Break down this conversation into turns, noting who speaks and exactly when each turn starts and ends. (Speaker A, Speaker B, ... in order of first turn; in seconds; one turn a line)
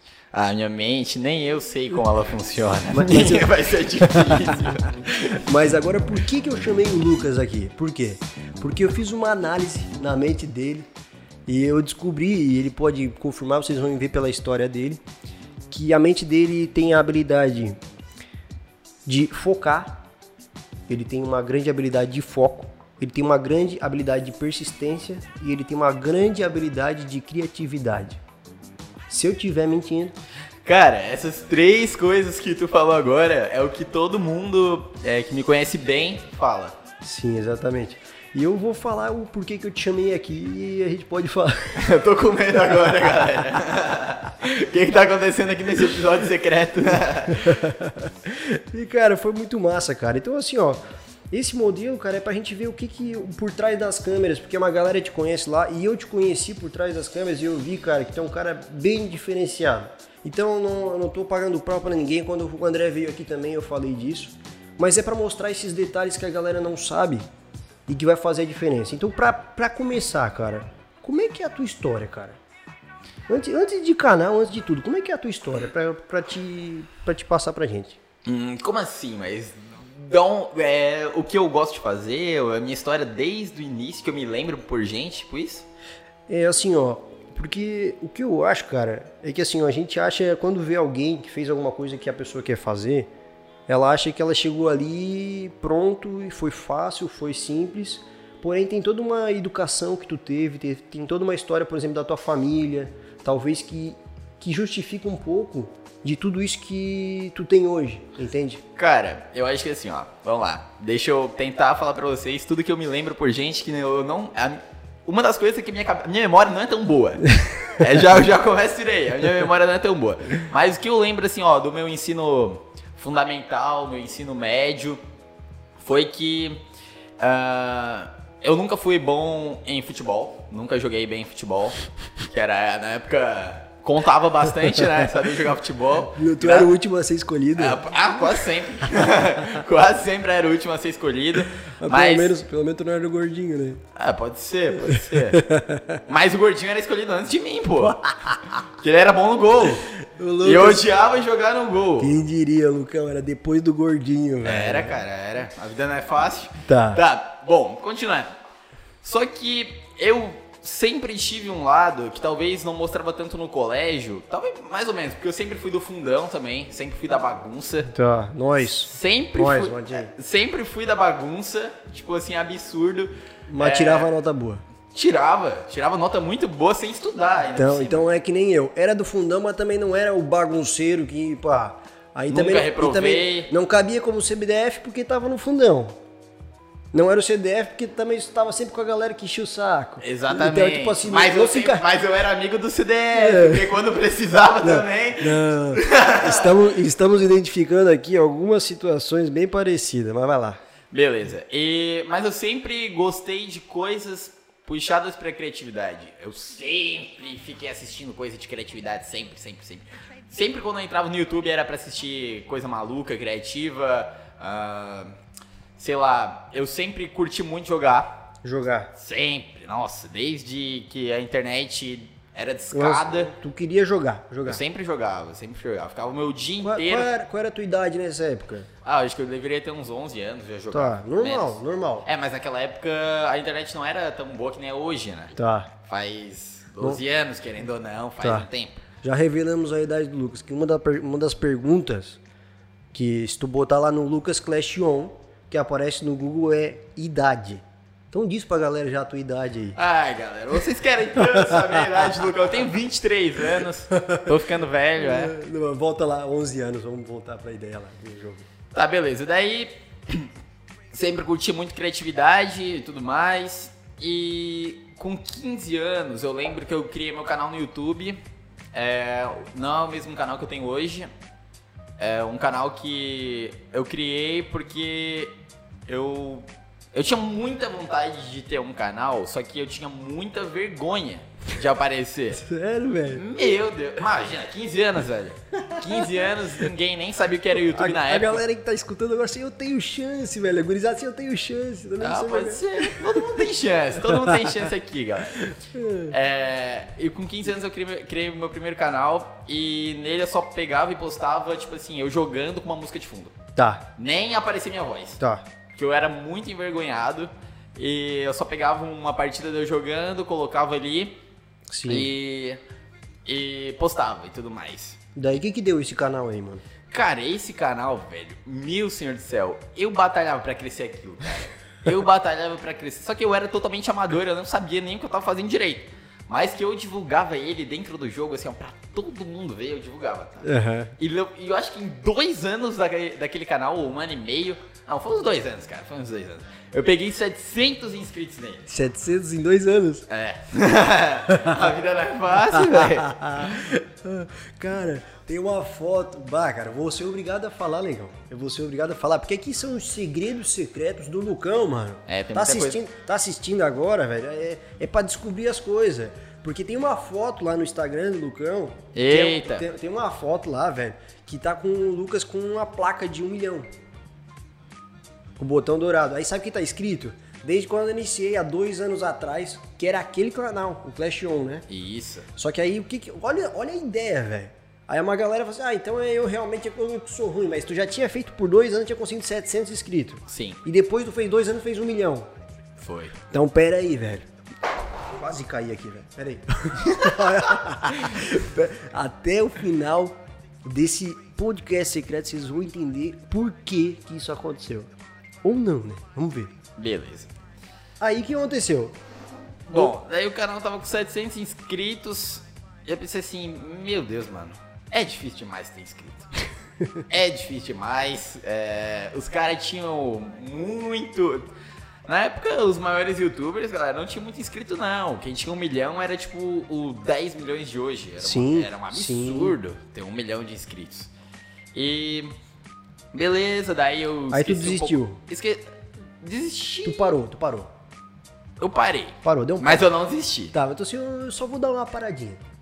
Speaker A: 0.3-5.4
Speaker B: 2.9-4.6
Speaker B: 5.4-10.9
Speaker B: 11.5-15.0
Speaker B: 15.7-17.8
Speaker B: 19.0-20.0
Speaker B: 20.9-28.2
Speaker B: 29.1-30.1
Speaker A: 30.6-36.7
Speaker B: 37.0-41.9
Speaker A: 41.7-47.7
Speaker B: 47.4-67.2
Speaker B: 67.9-72.4
Speaker B: 73.3-78.0
Speaker A: 78.2-85.7
Speaker B: 86.3-93.1
Speaker B: 93.7-108.6
Speaker A: 108.8-125.0
Speaker A: 125.8-126.6
Speaker A: 127.2-136.7
Speaker B: 136.0-137.8
Speaker A: 137.6-142.4
Speaker B: 141.8-143.8
Speaker A: 143.9-145.5
Speaker B: 144.8-146.0
Speaker A: 146.1-152.1
Speaker B: 150.0-150.9
Speaker B: 152.0-155.0
Speaker A: 154.4-158.3
Speaker B: 156.7-157.0
Speaker A: 159.0-167.9
Speaker B: 167.9-170.1
Speaker A: 168.8-174.1
Speaker B: 173.5-174.6
Speaker A: 174.9-178.1
Speaker B: 177.5-186.0
Speaker A: 182.3-183.5
Speaker B: 186.9-191.8
Speaker A: 190.0-196.5
Speaker B: 193.1-193.7
Speaker B: 194.6-200.6
Speaker A: 200.9-215.1
Speaker A: 215.8-218.3
Speaker B: 218.4-218.9
Speaker A: 218.9-223.3
Speaker B: 222.7-224.6
Speaker A: 224.4-227.1
Speaker B: 226.6-228.7
Speaker A: 228.8-238.8
Speaker B: 230.7-232.1
Speaker B: 235.3-235.7
Speaker B: 238.2-238.5
Speaker B: 239.0-242.2
Speaker B: 242.9-249.8
Speaker A: 249.8-255.3
Speaker B: 251.2-252.3
Speaker B: 253.5-254.3
Speaker B: 255.0-258.5
Speaker A: 258.7-260.3
Speaker A: 260.9-268.2
Speaker A: 268.7-271.1
Speaker A: 272.0-275.3
Speaker A: 275.9-282.4
Speaker B: 282.3-283.2
Speaker A: 283.1-288.4
Speaker B: 285.6-286.3
Speaker B: 287.6-294.7
Speaker A: 292.0-295.5
Speaker B: 295.5-296.1
Speaker A: 296.1-303.3
Speaker B: 303.6-303.9
Speaker A: 303.9-305.2
Speaker B: 305.2-305.4
Speaker A: 305.7-311.2
Speaker B: 311.7-312.1
Speaker A: 311.8-312.6
Speaker A: 313.2-315.0
Speaker B: 315.1-316.6
Speaker A: 316.9-338.7
Speaker B: 330.4-330.9
Speaker B: 338.7-340.1
Speaker A: 340.1-343.7
Speaker B: 341.3-341.6
Speaker B: 342.5-363.7
Speaker A: 352.1-352.8
Speaker A: 358.9-359.7
Speaker B: 365.4-371.6
Speaker A: 371.7-372.3
Speaker B: 372.4-382.3
Speaker A: 380.3-380.6
Speaker A: 382.8-383.1
Speaker B: 383.3-384.3
Speaker B: 385.1-394.9
Speaker B: 395.4-396.5
Speaker A: 396.8-397.3
Speaker B: 398.0-398.9
Speaker A: 399.7-406.3
Speaker A: 407.1-411.4
Speaker A: 412.1-421.1
Speaker B: 418.2-419.6
Speaker A: 421.7-422.3
Speaker A: 423.1-425.7
Speaker B: 424.3-425.2
Speaker A: 426.2-427.1
Speaker B: 426.8-427.7
Speaker A: 428.6-430.5
Speaker B: 429.2-429.9
Speaker B: 430.5-432.4